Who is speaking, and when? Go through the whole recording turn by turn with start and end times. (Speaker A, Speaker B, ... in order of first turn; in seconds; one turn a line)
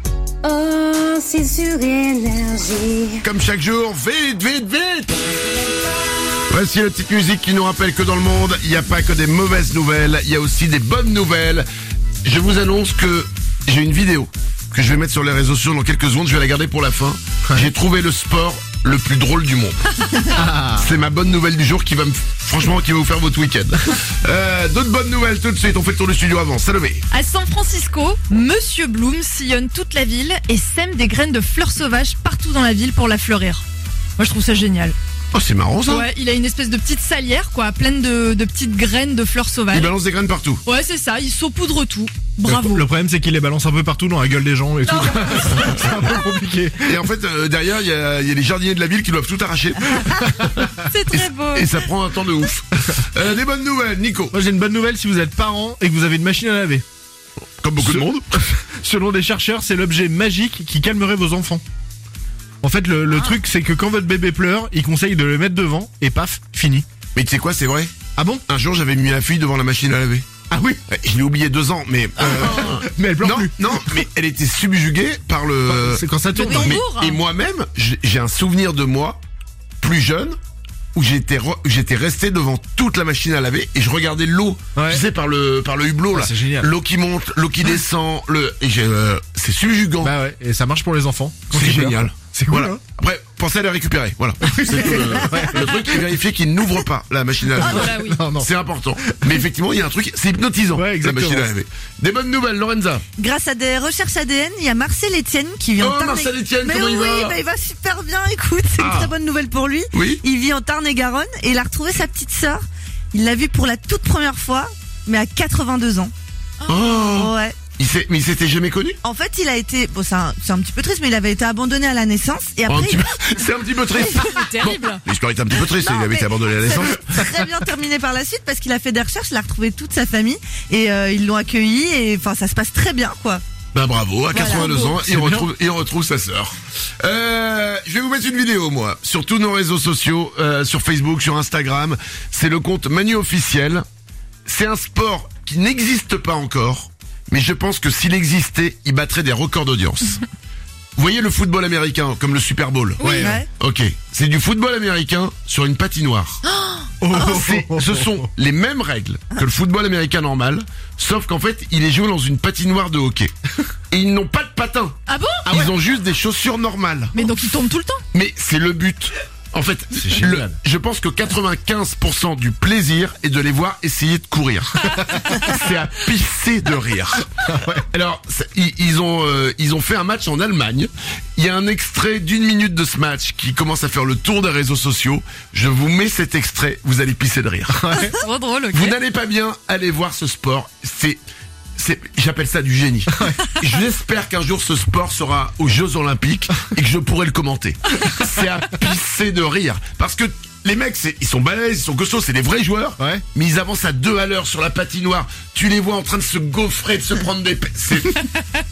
Speaker A: 0.4-3.2
Speaker B: 3.2-5.2
Speaker B: 6.5-11.7
Speaker B: 12.2-20.2
Speaker C: 20.4-20.8
Speaker B: 20.8-27.1
Speaker D: 27.1-33.6
Speaker D: 34.2-35.0
Speaker B: 35.3-36.1
Speaker D: 35.9-39.9
Speaker B: 39.7-40.6
Speaker D: 40.6-42.9
Speaker C: 42.4-46.9
Speaker B: 46.8-54.4
Speaker D: 50.9-51.8
Speaker C: 54.3-56.8
Speaker B: 57.6-58.3
Speaker C: 57.8-61.6
Speaker C: 62.6-66.8
Speaker B: 67.1-67.9
Speaker C: 68.2-68.4
Speaker B: 68.5-70.2
Speaker C: 70.5-70.8
Speaker B: 70.9-79.2
Speaker C: 72.2-74.0
Speaker C: 75.7-76.8
Speaker D: 76.3-77.2
Speaker B: 79.8-80.4
Speaker B: 80.9-90.1
Speaker C: 86.1-86.7
Speaker C: 90.0-92.8
Speaker B: 91.5-103.0
Speaker C: 94.4-95.6
Speaker C: 97.6-98.5
Speaker D: 97.7-98.2
Speaker C: 100.8-101.5
Speaker E: 103.2-116.1
Speaker B: 105.8-107.4
Speaker B: 108.8-109.1
Speaker B: 109.9-110.2
Speaker B: 116.7-119.0
Speaker E: 117.1-117.6
Speaker E: 119.0-123.1
Speaker B: 122.7-127.2
Speaker D: 124.2-125.0
Speaker E: 125.7-133.4
Speaker B: 133.7-143.8
Speaker E: 134.3-134.9
Speaker C: 135.0-135.4
Speaker B: 144.5-150.2
Speaker B: 150.9-156.4
Speaker C: 153.0-153.4
Speaker E: 153.0-153.5
Speaker E: 156.5-157.2
Speaker C: 157.0-158.1
Speaker B: 157.2-163.3
Speaker B: 163.9-167.2
Speaker D: 165.1-165.4
Speaker D: 167.1-168.0
Speaker B: 168.1-188.0
Speaker C: 170.0-170.5
Speaker C: 177.5-177.8
Speaker C: 187.8-188.2
Speaker D: 188.2-188.9
Speaker B: 188.7-191.2
Speaker B: 191.8-208.3
Speaker C: 193.2-193.4